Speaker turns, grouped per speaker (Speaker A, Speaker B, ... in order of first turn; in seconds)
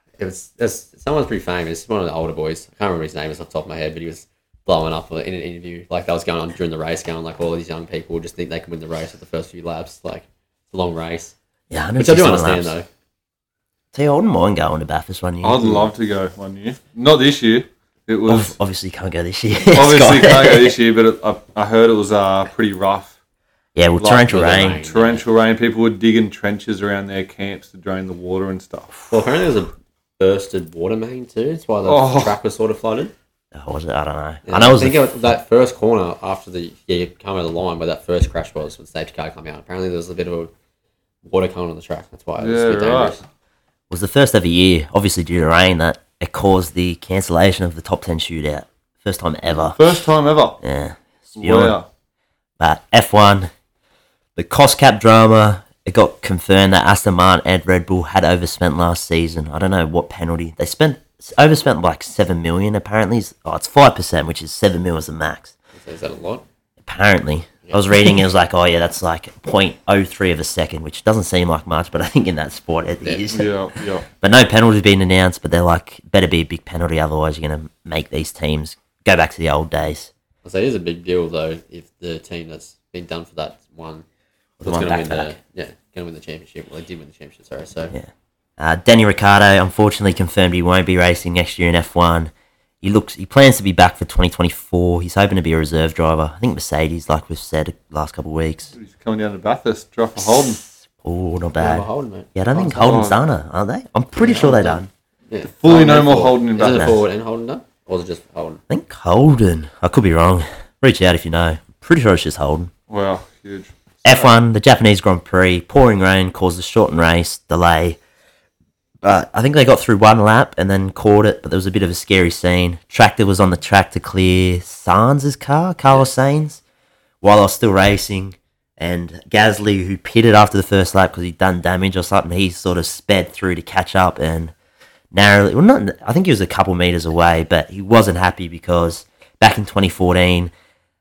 Speaker A: 0.2-11.3, 12.0-12.9, 24.2-25.3, 29.1-33.1, 34.5-40.5, 41.2-43.2, 65.7-66.4, 67.6-67.9, 80.4-84.0, 84.6-87.9, 101.6-103.0, 104.2-108.6
Speaker B: 11.7-12.8, 13.9-15.9, 18.3-20.7, 23.8-24.8, 33.5-35.0, 43.9-49.8, 50.6-51.8, 52.6-53.5, 54.4-65.5, 66.8-73.5, 74.2-80.1, 84.6-85.3, 87.9-98.7, 100.2-104.9, 106.7-107.0, 108.7-112.7, 114.0-118.0, 119.0-126.6, 127.2-134.5, 135.1-140.5
Speaker C: 15.4-18.5, 19.7-23.1, 24.0-29.1, 31.8-32.4, 42.4-43.2, 49.7-50.6, 51.4-51.8, 73.3-74.0, 98.7-100.6, 102.8-103.2, 105.4-107.0, 112.9-114.3